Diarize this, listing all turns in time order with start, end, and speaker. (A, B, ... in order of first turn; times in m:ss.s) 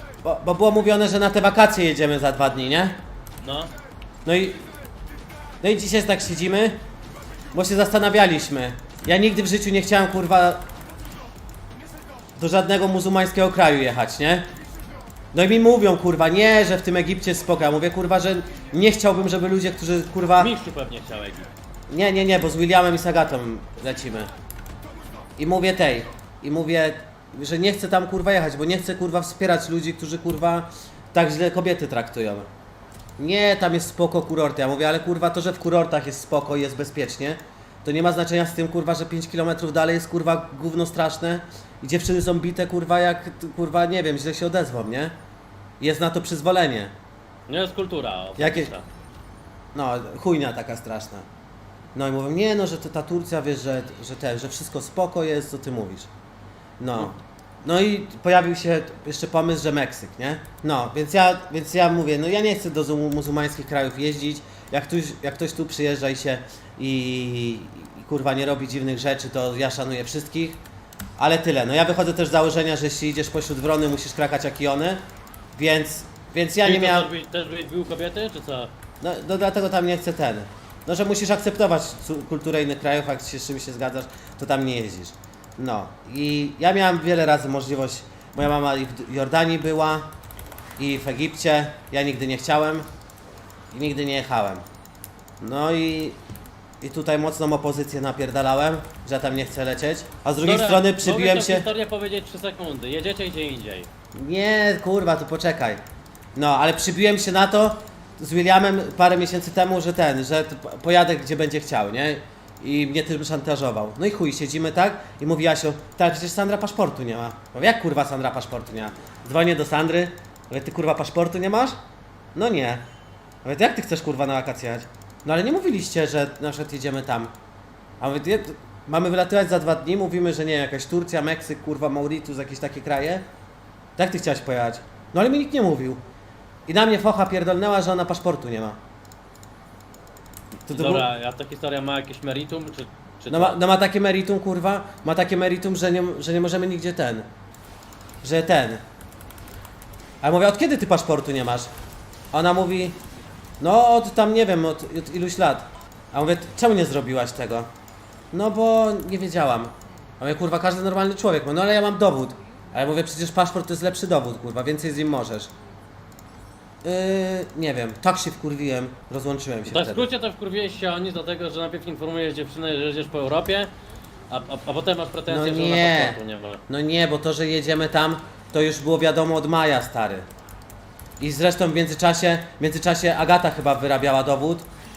0:00.2-0:03.0 A
0:03.4-0:03.7 B
0:04.2-0:04.6 A
0:05.6-0:06.8 A
0:07.5-0:10.6 A
0:12.4-0:14.4 A
0:15.3-0:20.5 A
0:20.4-0:21.5 B
0:21.9-0:24.3 A
0:25.4-0:32.5 A
0:33.2-0:45.1 A
0:45.8-0:46.9 A
0:47.5-0:48.8 B
0:48.4-0:48.7 A
0:49.7-0:51.2 A
0:52.0-0:56.1 A
0:56.8-1:10.6 A
1:11.2-1:15.0 A
1:15.6-1:17.1 A
1:16.6-1:18.7 B
1:19.0-1:30.1 A
1:30.8-1:32.9 A
1:33.7-1:34.6 A
1:35.4-1:36.2 A
1:36.8-1:41.7 A
1:40.4-1:43.9 B
1:44.2-1:45.8 A
1:46.4-2:01.8 A
2:02.4-2:02.8 A
2:03.4-2:07.3 A
2:08.0-2:13.2 A
2:14.0-2:16.0 A
2:16.7-2:18.8 A
2:20.7-2:21.1 A
2:20.7-2:23.6 B
2:23.3-2:27.3 A
2:28.2-2:28.8 A
2:30.2-2:31.7 A
2:32.3-2:33.0 A
2:33.6-2:37.7 A
2:38.3-2:45.5 A
2:46.8-2:50.1 A
2:49.7-2:53.7 B
2:54.3-2:56.6 B
2:55.3-3:00.2 A
3:01.2-3:04.7 A